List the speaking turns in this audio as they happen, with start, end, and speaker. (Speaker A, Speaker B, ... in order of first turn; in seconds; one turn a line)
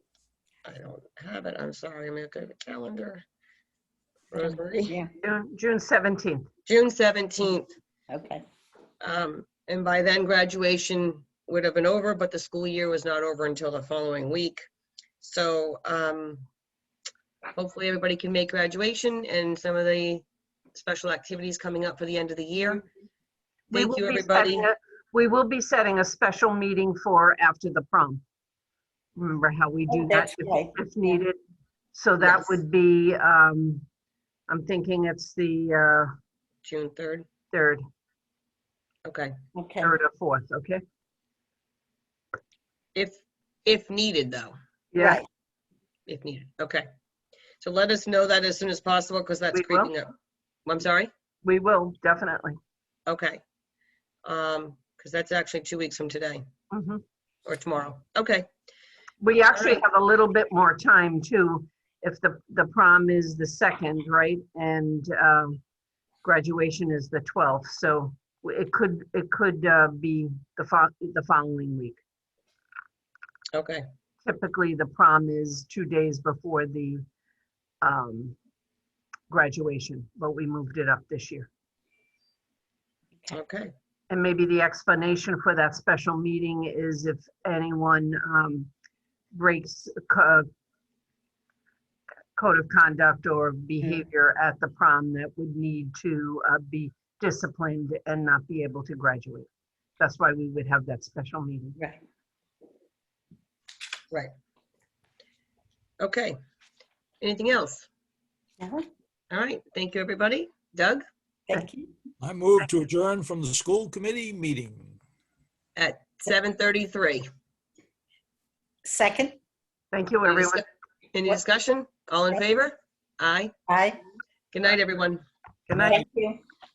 Speaker A: 0.6-3.2
Speaker A: 4.3-4.9
Speaker B: 4.4-5.1
Speaker C: 5.2-6.5
Speaker A: 6.7-7.7
Speaker B: 8.1-8.4
Speaker A: 9.0-14.6
Speaker A: 15.2-16.4
Speaker A: 17.5-22.9
Speaker C: 23.7-28.2
Speaker A: 23.7-24.6
Speaker C: 29.1-31.4
Speaker B: 29.9-31.2
Speaker C: 31.9-33.8
Speaker A: 32.2-32.5
Speaker C: 34.5-36.1
Speaker A: 36.6-37.3
Speaker C: 37.5-37.8
Speaker A: 39.0-39.3
Speaker B: 39.5-40.0
Speaker C: 39.8-40.8
Speaker A: 42.9-44.5
Speaker C: 44.9-45.2
Speaker B: 45.0-45.2
Speaker A: 46.1-46.9
Speaker A: 47.6-50.1
Speaker C: 49.5-49.9
Speaker A: 50.6-51.1
Speaker C: 51.4-52.5
Speaker A: 53.1-53.4
Speaker A: 54.2-56.4
Speaker C: 56.7-57.0
Speaker A: 57.5-58.5
Speaker C: 59.2-65.6
Speaker A: 59.5-59.8
Speaker C: 66.2-72.0
Speaker A: 73.5-73.8
Speaker C: 74.2-77.0
Speaker C: 77.8-78.3
Speaker C: 79.3-81.5
Speaker A: 83.3-83.7
Speaker C: 84.1-88.7
Speaker C: 89.3-90.5
Speaker C: 92.3-99.5
Speaker C: 100.0-101.8
Speaker A: 106.0-106.3
Speaker A: 107.2-107.9
Speaker B: 108.6-108.8
Speaker A: 109.3-111.0
Speaker B: 111.5-111.9
Speaker D: 112.2-115.0
Speaker A: 115.8-117.2
Speaker B: 118.8-119.4
Speaker C: 119.9-120.6
Speaker A: 120.2-123.5
Speaker B: 123.7-124.0
Speaker A: 124.5-125.2
Speaker C: 125.7-126.0
Speaker B: 125.7-126.4